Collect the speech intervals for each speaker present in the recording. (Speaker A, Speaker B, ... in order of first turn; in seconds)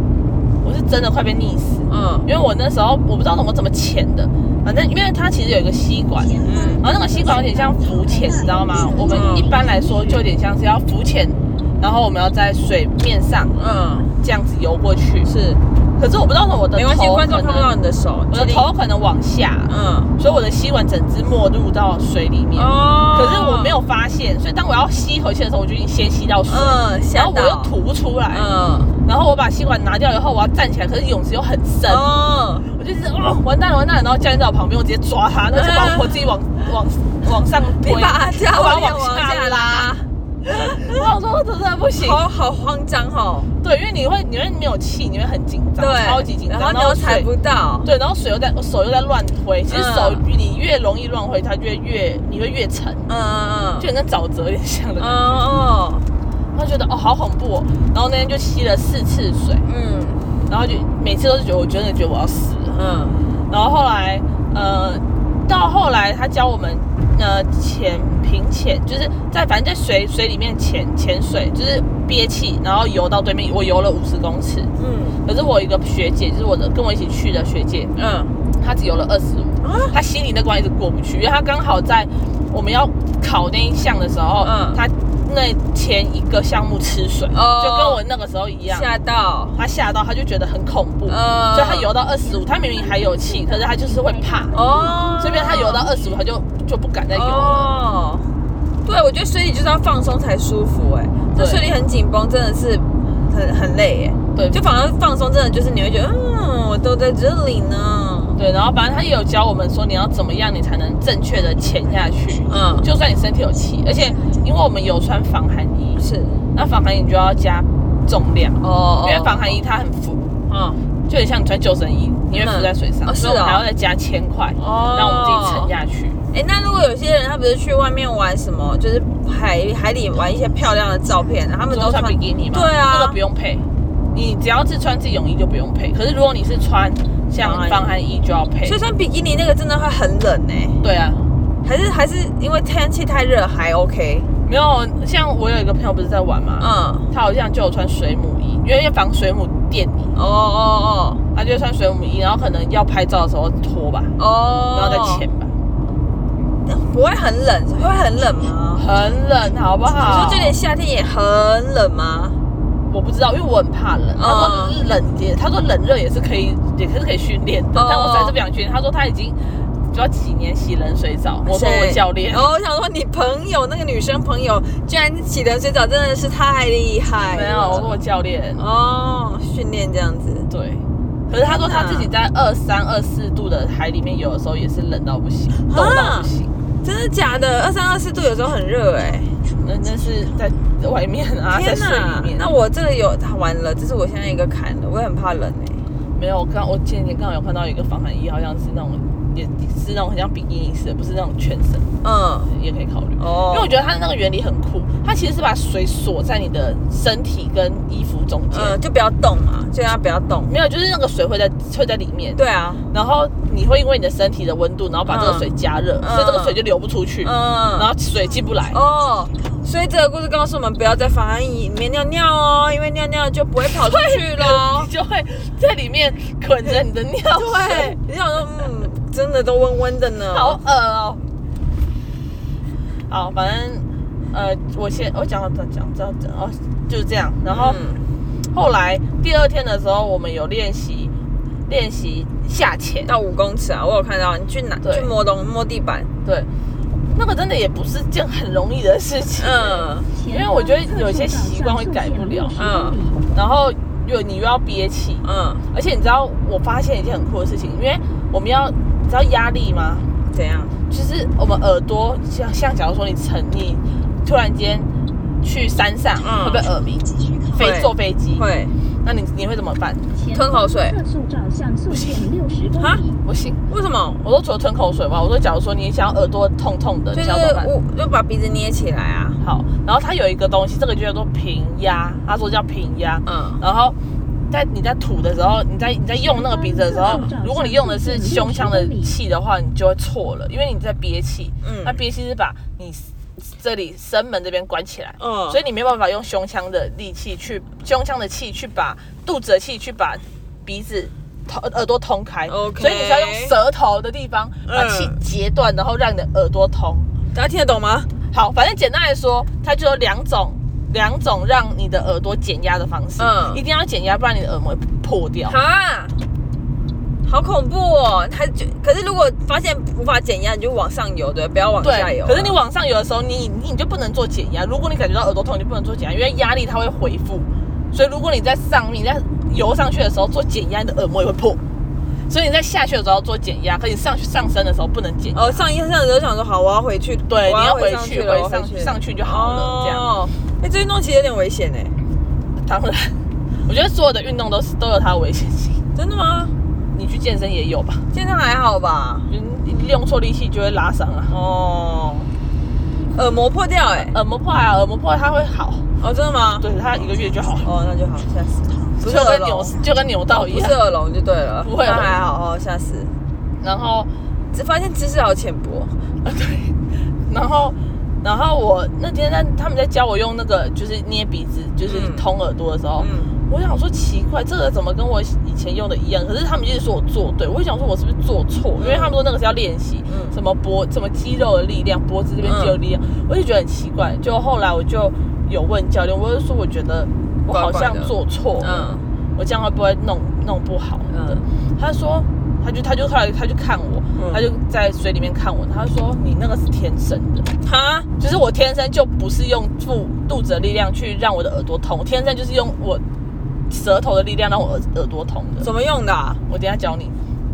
Speaker A: 0.6-15.3, 16.0-17.7, 18.3-28.5, 29.0-32.0, 32.7-39.9, 40.5-42.2, 43.6-47.3, 47.8-53.1, 53.8-55.4, 56.5-59.6, 60.5-62.8, 63.5-74.7, 75.2-77.9, 78.6-88.9, 89.5-94.5, 95.2-97.7, 101.3-101.7, 104.3-104.6, 108.4-116.0, 116.5-120.3, 121.1-126.2, 131.7-138.8, 140.8-141.2, 144.4-150.1, 151.3-154.1, 154.7-155.5, 158.7-160.6, 162.9-169.4, 169.9-172.4, 177.2-178.6, 180.5-186.5, 189.6-192.5, 196.2-201.8, 202.5-208.8, 210.4-212.4, 212.9-218.8, 223.8-228.0, 230.3-231.2, 233.1-237.8, 238.5-241.1, 241.7-243.1, 244.8-245.1, 247.1-252.6, 253.3-260.1, 260.9-264.9, 265.4-268.4, 269.0-270.1, 271.9-272.2, 273.2-273.6, 274.2-277.7, 279.4-283.9, 284.5-307.1, 308.3-315.6, 321.8-331.6, 332.3-335.7, 337.3-340.0, 342.6-345.8, 346.9-348.1, 349.3-351.3, 354.1-355.9, 356.6-357.7, 359.0-360.8, 361.6-362.2, 363.6-364.1, 366.2-397.5, 398.2-403.0, 403.7-405.7, 406.5-407.1
Speaker B: 1.9-2.3, 6.4-6.8, 9.1-9.5, 13.6-14.1, 15.2-15.6, 16.7-18.7, 19.7-20.1, 22.6-23.8, 26.5-27.7, 28.3-28.9, 31.9-32.7, 35.5-36.2, 37.8-40.1, 40.6-40.9, 42.0-43.5, 45.8-47.9, 49.7-50.2, 53.1-53.9, 55.0-56.1, 59.6-60.3, 62.7-63.2, 74.8-75.2, 78.0-78.3, 79.6-79.9, 84.4-84.8, 87.3-88.0, 88.7-89.6, 91.1-91.9, 94.5-95.8, 97.1-98.3, 98.8-108.4, 112.5-112.9, 116.0-116.4, 118.6-119.6, 120.5-120.8, 122.3-123.6, 124.6-125.7, 126.3-133.2, 137.3-137.9, 138.6-140.8, 141.6-144.3, 146.6-147.1, 150.1-151.2, 154.2-155.2, 156.6-158.8, 159.9-162.4, 164.2-164.8, 167.7-168.4, 171.4-177.9, 178.6-180.5, 181.4-182.1, 185.7-186.3, 186.8-189.3, 191.5-195.8, 202.0-202.5, 203.2-203.8, 208.5-210.5, 212.3-212.8, 215.1-216.6, 217.2-217.9, 218.7-224.9, 227.3-230.6, 237.4-238.1, 243.1-246.1, 249.4-250.1, 252.6-253.0, 255.2-255.6, 260.3-260.7, 266.2-266.7, 267.6-268.7, 270.3-271.0, 273.7-274.2, 277.1-279.4, 283.2-283.6, 287.0-287.3, 291.6-292.0, 295.2-295.6, 302.5-303.5, 304.6-305.1, 307.3-308.1, 313.2-313.6, 315.5-316.1, 317.2-322.6, 335.3-341.9, 345.9-346.5, 348.1-349.3, 351.3-352.3, 353.1-354.1, 356.0-356.7, 357.6-359.8, 360.3-363.1, 364.5-365.9, 371.9-372.2, 373.0-373.3, 378.8-379.2, 380.1-380.4, 382.4-382.8, 387.5-389.0, 391.1-391.4, 394.1-394.4, 397.6-398.1, 405.6-406.4
Speaker C: 6.2-10.2, 91.8-96.2, 250.1-253.2, 270.1-273.2, 286.1-289.2